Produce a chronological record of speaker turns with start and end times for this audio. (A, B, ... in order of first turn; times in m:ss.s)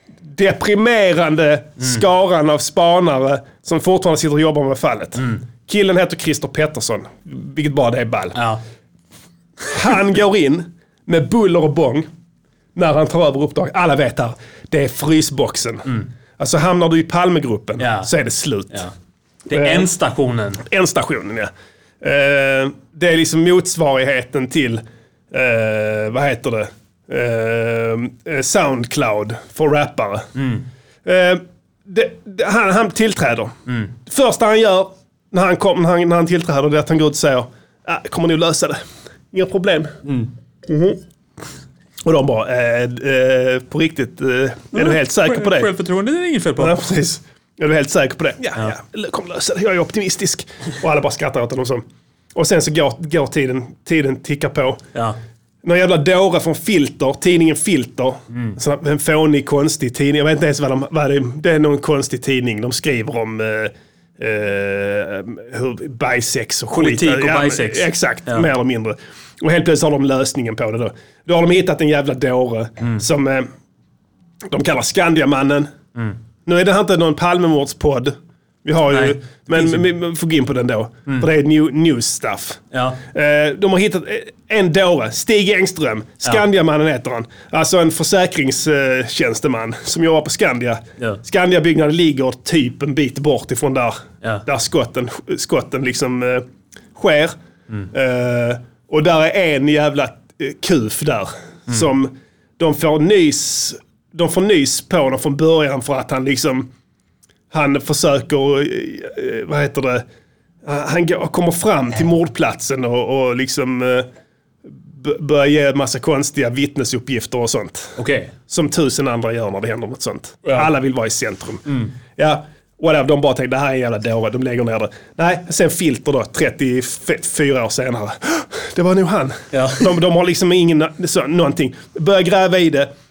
0:00.3-0:08.4 A
0:08.3-0:08.6 B
0:09.7-0:12.1 A
0:12.8-0:15.9 A
0:16.4-0:18.8 A
0:17.8-0:18.1 B
0:19.5-0:20.6 B
0:19.5-0:19.9 A
0:20.6-0:21.5 A
0:22.0-0:30.3 A
0:30.4-0:30.6 B
0:31.0-0:33.5 A
0:34.0-0:38.8 A
0:39.3-0:39.9 A
0:40.0-0:40.3 B
0:40.7-0:41.0 A
0:42.0-0:45.7 A
0:44.7-0:46.8 B
0:46.6-0:51.8 A
0:52.3-0:54.8 A
0:55.6-1:13.5 A
0:58.3-0:58.6 B
1:06.7-1:08.5 B
1:14.5-1:15.7 A
1:16.4-1:22.6 A
1:18.9-1:19.8 B
1:22.7-1:23.0 B
1:23.1-1:37.4 A
1:37.9-1:46.7 A
1:47.5-1:50.0 A
1:50.6-1:54.1 A
1:54.9-1:58.0 A
1:58.0-1:58.3 B
1:58.5-2:12.9 A
2:01.7-2:01.9 B
2:09.5-2:10.0 B